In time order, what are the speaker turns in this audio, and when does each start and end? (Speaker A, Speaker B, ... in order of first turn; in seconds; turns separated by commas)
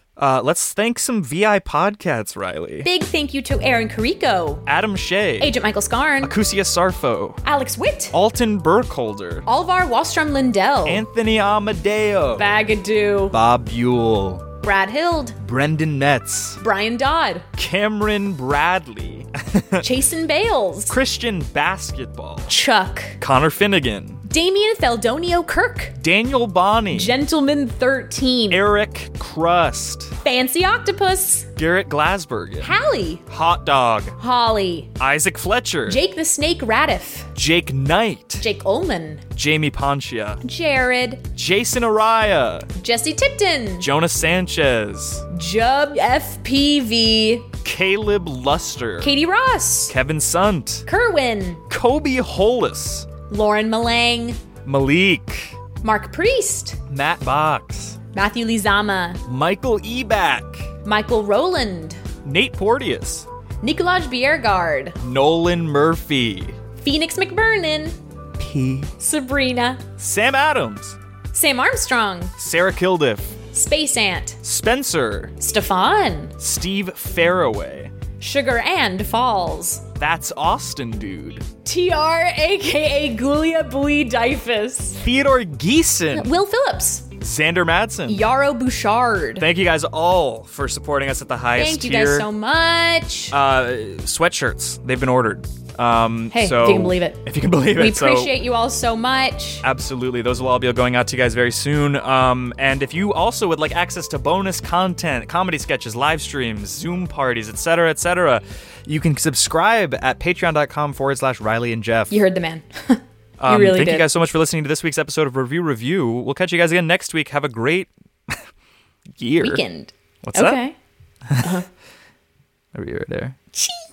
Speaker A: 0.2-2.9, Speaker B: 2.8-4.6, Speaker A: 4.7-5.5, Speaker B: 5.4-6.3, Speaker A: 6.2-7.4, Speaker B: 7.4-8.1, Speaker A: 8.1-9.5, Speaker B: 9.5-11.0, Speaker A: 10.8-12.4, Speaker B: 12.3-13.4, Speaker A: 13.3-14.5, Speaker B: 14.6-15.4, Speaker A: 15.4-16.6, Speaker B: 16.6-17.4, Speaker A: 17.6-19.8, Speaker B: 19.8-21.0, Speaker A: 20.9-22.5, Speaker B: 22.5-23.2, Speaker A: 23.2-24.2, Speaker B: 24.3-26.0, Speaker A: 26.0-27.2, Speaker B: 26.9-28.6, Speaker A: 28.5-30.1, Speaker B: 30.2-31.5, Speaker A: 31.6-32.7, Speaker B: 32.6-33.2, Speaker A: 33.3-34.2, Speaker B: 34.2-34.9, Speaker A: 35.0-36.0, Speaker B: 35.9-37.3, Speaker A: 37.4-38.4, Speaker B: 38.4-39.2, Speaker A: 39.4-40.4, Speaker B: 40.4-41.2, Speaker A: 41.4-42.7, Speaker B: 42.8-43.9, Speaker A: 43.8-45.2, Speaker B: 45.3-47.5, Speaker A: 47.6-49.1, Speaker B: 49.0-49.9, Speaker A: 49.9-50.9, Speaker B: 50.9-51.6, Speaker A: 51.7-53.1, Speaker B: 53.3-54.4, Speaker A: 54.6-55.5, Speaker B: 55.8-56.8, Speaker A: 56.9-58.0, Speaker B: 58.1-59.2, Speaker A: 59.3-60.7, Speaker B: 60.8-62.0, Speaker A: 62.2-63.3, Speaker B: 63.6-65.0, Speaker A: 65.0-66.6, Speaker B: 66.8-68.0, Speaker A: 68.4-68.9, Speaker B: 69.0-69.8, Speaker A: 70.0-71.0, Speaker B: 71.3-72.3, Speaker A: 72.4-73.3, Speaker B: 73.5-74.4, Speaker A: 74.4-75.3, Speaker B: 75.4-76.3, Speaker A: 76.4-77.9, Speaker B: 78.2-79.8, Speaker A: 80.0-81.5, Speaker B: 81.6-85.0, Speaker A: 85.0-86.3, Speaker B: 86.1-87.1, Speaker A: 87.2-88.2, Speaker B: 88.1-89.5, Speaker A: 89.4-92.3, Speaker B: 91.5-93.3, Speaker A: 93.3-98.4, Speaker B: 96.3-97.2, Speaker B: 97.7-99.6, Speaker A: 99.6-112.2, Speaker B: 112.1-114.1, Speaker A: 113.4-118.4, Speaker A: 119.2-119.6, Speaker B: 119.4-120.8, Speaker A: 120.2-120.6, Speaker B: 121.4-121.7, Speaker A: 122.7-123.3